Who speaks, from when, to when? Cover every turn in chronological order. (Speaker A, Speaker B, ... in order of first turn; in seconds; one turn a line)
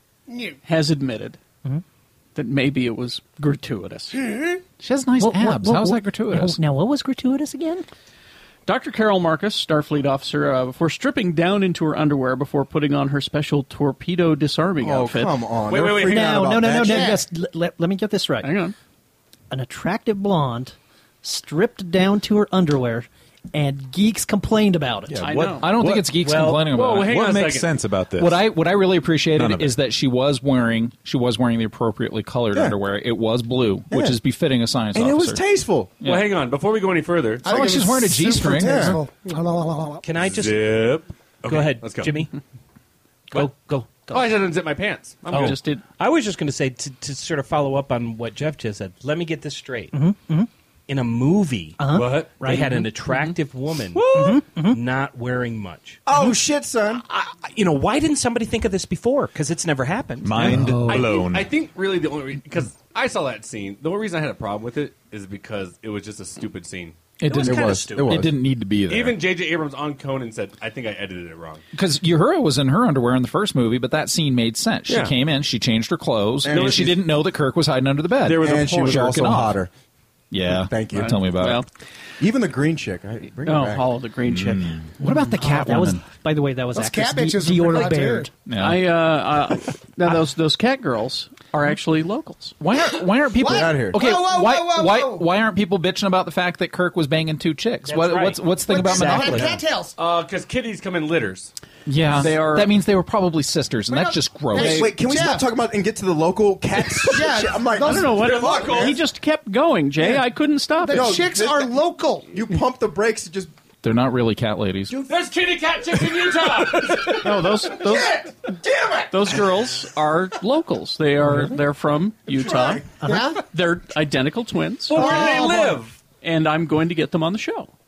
Speaker A: 0.3-0.6
Speaker B: 0.6-1.4
Speaker B: 2.3-4.2
Speaker C: 4.8-6.6
Speaker D: 5.2-7.8
Speaker B: 8.7-15.4
Speaker E: 14.8-17.2
Speaker F: 15.7-16.4
Speaker D: 15.9-18.6
Speaker A: 16.7-17.2
Speaker B: 18.4-18.7
Speaker D: 19.5-25.3
Speaker G: 25.1-26.2
Speaker B: 25.2-25.7
Speaker C: 25.6-27.2
Speaker H: 26.1-26.6
Speaker F: 26.4-27.7
Speaker G: 26.7-28.4
Speaker C: 28.1-35.4
Speaker G: 29.3-29.7
Speaker E: 33.9-34.2
Speaker E: 34.9-35.9
Speaker C: 36.0-36.3
Speaker F: 36.0-37.4
Speaker A: 37.4-40.0
Speaker C: 37.4-39.0
Speaker E: 38.3-39.0
Speaker H: 40.0-40.9
Speaker F: 40.2-42.2
Speaker H: 41.4-42.3
Speaker H: 43.3-44.2
Speaker F: 44.1-45.6
Speaker H: 45.3-50.0
Speaker B: 45.3-45.8
Speaker D: 49.9-50.5
Speaker H: 50.9-56.4
Speaker D: 51.8-52.9
Speaker F: 51.9-52.3
Speaker B: 52.7-53.3
Speaker D: 54.1-54.8
Speaker E: 56.0-57.0
Speaker H: 57.0-60.5
Speaker G: 60.2-61.5
Speaker D: 60.4-61.1
Speaker C: 60.4-60.9
Speaker F: 60.9-67.0
Speaker C: 67.2-69.2
Speaker H: 67.2-68.3
Speaker E: 67.3-68.3
Speaker F: 68.9-71.6
Speaker C: 71.7-79.6
Speaker F: 74.9-75.1
Speaker E: 76.4-76.9
Speaker F: 76.5-77.0
Speaker F: 78.2-79.2
Speaker E: 78.2-79.7
Speaker C: 80.3-81.6
Speaker E: 80.5-81.2
Speaker B: 80.9-81.7
Speaker E: 82.2-83.9
Speaker B: 83.4-84.9
Speaker C: 84.4-86.0
Speaker D: 85.0-88.3
Speaker A: 86.7-88.3
Speaker C: 88.4-88.8
Speaker B: 88.5-92.5
Speaker C: 92.6-99.5
Speaker A: 93.3-95.3
Speaker E: 93.4-94.0
Speaker H: 97.8-99.6
Speaker A: 98.7-99.9
Speaker F: 100.0-101.5
Speaker C: 101.8-105.0
Speaker B: 102.1-102.8
Speaker A: 103.9-105.5
Speaker E: 104.5-109.0
Speaker A: 107.0-108.6
Speaker B: 107.8-111.2
Speaker F: 108.2-109.0
Speaker A: 110.8-112.3
Speaker E: 110.9-111.7
Speaker E: 112.3-113.5
Speaker C: 113.8-115.0
Speaker F: 115.0-117.3
Speaker E: 116.9-119.4
Speaker B: 117.0-118.3
Speaker B: 119.1-125.4
Speaker E: 122.3-122.8
Speaker A: 123.0-123.4
Speaker F: 124.9-125.9
Speaker A: 124.9-125.8
Speaker B: 126.2-127.7